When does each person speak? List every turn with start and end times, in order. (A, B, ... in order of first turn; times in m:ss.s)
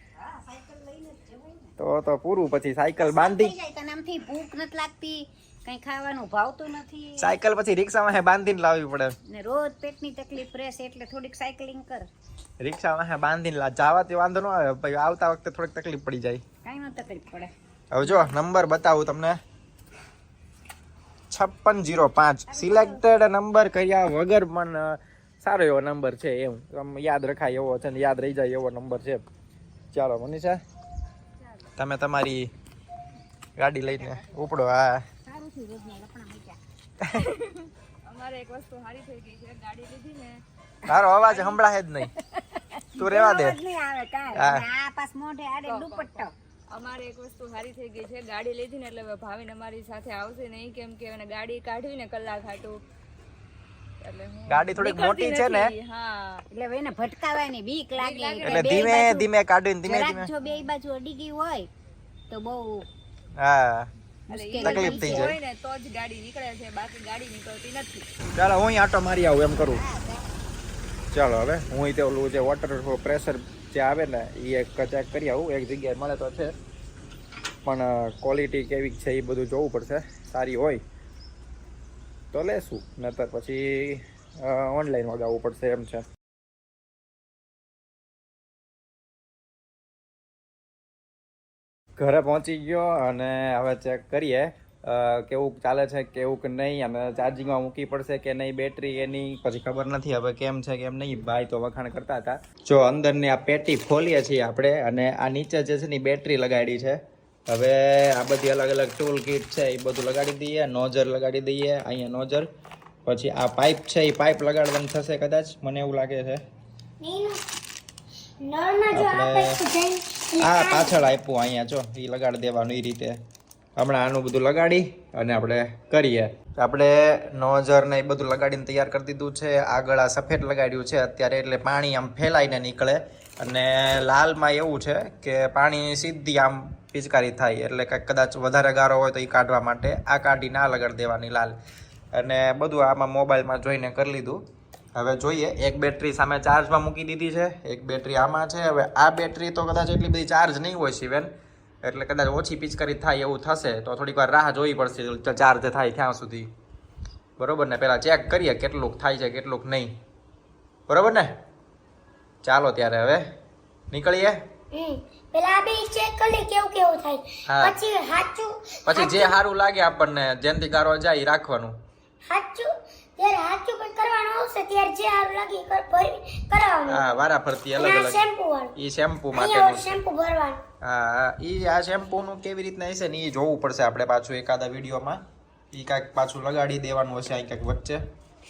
0:00.3-0:01.7 A
0:01.8-0:03.6 B
0:03.0-0:07.3 A
0:07.2-0:09.1 B
0:09.3-0:12.1 A
0:12.6-0:16.4 B
0:16.6-0:18.4 A
0:17.9-0:19.4 B
0:21.3-0:29.2 B
0:22.5-0:23.0 A
0:29.9-0:30.6 B
0:31.4-0:31.7 C
0:31.8-0:32.5 B
0:33.6-0:35.0 B
0:34.0-0:34.5 C
0:35.2-0:36.6 A
0:37.1-0:40.4 C
0:40.9-0:42.1 B
0:42.3-0:46.3 A
0:43.0-0:43.6 B
0:44.4-0:44.6 B
0:45.6-0:52.8 C
0:54.0-0:56.4 C
0:54.5-0:55.7 B
0:56.5-0:59.3 A
0:58.0-0:59.1 C
0:58.4-1:00.3 B
0:59.8-1:01.7 A
1:02.3-1:02.9 A
1:03.4-1:03.9 B
1:04.3-1:05.3 A
1:04.3-1:08.1 C
1:04.6-1:05.4 B
1:08.4-1:09.8 B
1:09.7-1:10.3 A
1:11.1-1:16.5 B
1:17.6-1:20.8 B
1:22.3-1:26.0 B
1:32.0-1:52.5 B
1:53.1-1:56.4 B
1:57.0-1:57.4 D
1:58.4-2:01.1 D
1:58.9-1:59.6 B
2:00.4-2:03.2 B
2:03.8-2:21.6 B
2:22.1-2:24.4 B
2:25.0-2:31.3 B
2:31.8-2:36.5 B
2:37.4-2:39.9 B
2:40.9-2:41.3 B
2:42.4-2:43.2 B
2:43.9-2:44.4 B
2:44.7-2:49.4 D
2:47.5-2:47.8 B
2:48.9-2:51.8 B
2:52.3-2:57.1 D
2:56.9-3:00.0 B
2:57.8-2:58.8 D
2:59.3-3:00.6 D
3:00.8-3:05.2 B
3:05.7-3:08.0 B